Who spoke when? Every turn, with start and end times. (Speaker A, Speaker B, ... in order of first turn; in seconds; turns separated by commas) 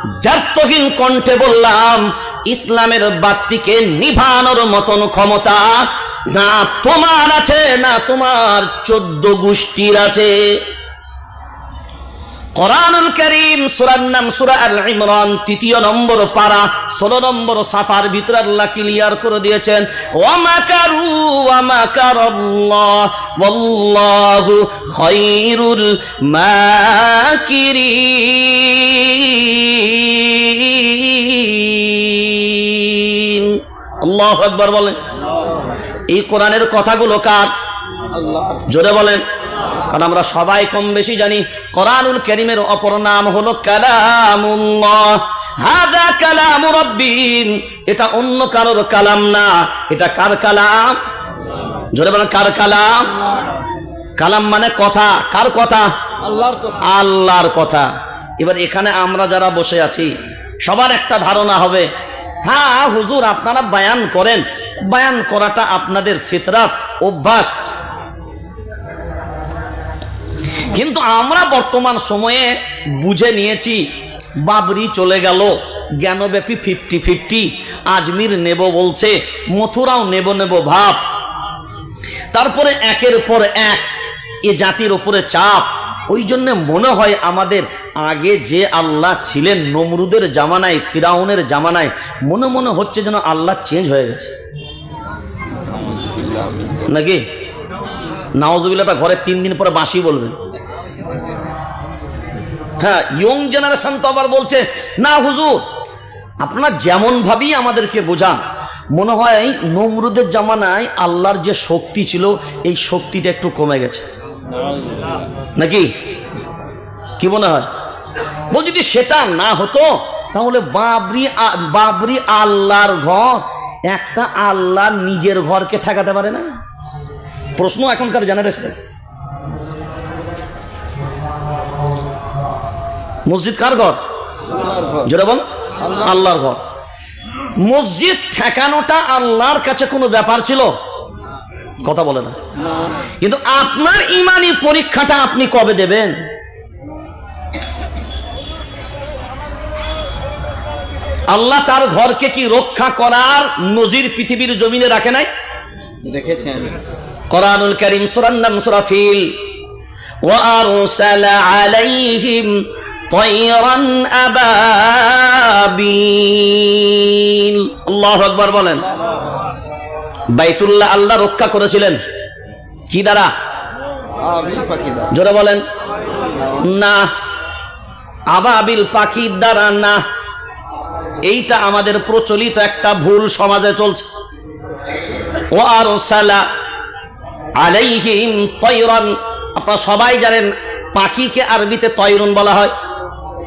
Speaker A: 0.2-10.6, Speaker A: 12.6-35.0, Speaker A: 36.1-37.5, Speaker B: 38.1-38.6, Speaker A: 38.7-39.2, Speaker A: 39.9-51.0, Speaker A: 51.9-53.1, Speaker A: 54.2-55.9, Speaker B: 56.3-56.8, Speaker A: 56.8-61.9, Speaker A: 62.4-67.5, Speaker A: 70.7-73.9, Speaker A: 74.4-81.0, Speaker A: 82.3-83.9, Speaker A: 84.5-94.3, Speaker B: 95.8-96.8, Speaker A: 96.9-97.2, Speaker A: 98.4-100.4, Speaker A: 102.8-105.6, Speaker A: 106.4-108.4, Speaker A: 108.9-114.0, Speaker A: 115.6-115.9, Speaker A: 117.2-117.7, Speaker A: 118.5-126.5, Speaker A: 127.6-128.8, Speaker A: 133.3-134.0, Speaker B: 134.5-135.1, Speaker A: 135.0-136.6, Speaker B: 135.8-136.1, Speaker A: 137.6-140.7, Speaker A: 141.8-142.4, Speaker B: 142.6-143.0, Speaker A: 143.2-146.2, Speaker A: 151.3-155.3, Speaker B: 156.0-156.8, Speaker A: 157.3-159.3, Speaker A: 160.2-168.8, Speaker A: 170.3-172.0, Speaker A: 172.9-173.3, Speaker B: 174.2-175.1, Speaker A: 175.1-175.6, Speaker B: 176.4-176.6, Speaker A: 176.6-177.1, Speaker A: 178.3-180.0, Speaker A: 181.3-184.1, Speaker A: 185.5-186.5, Speaker A: 187.6-192.7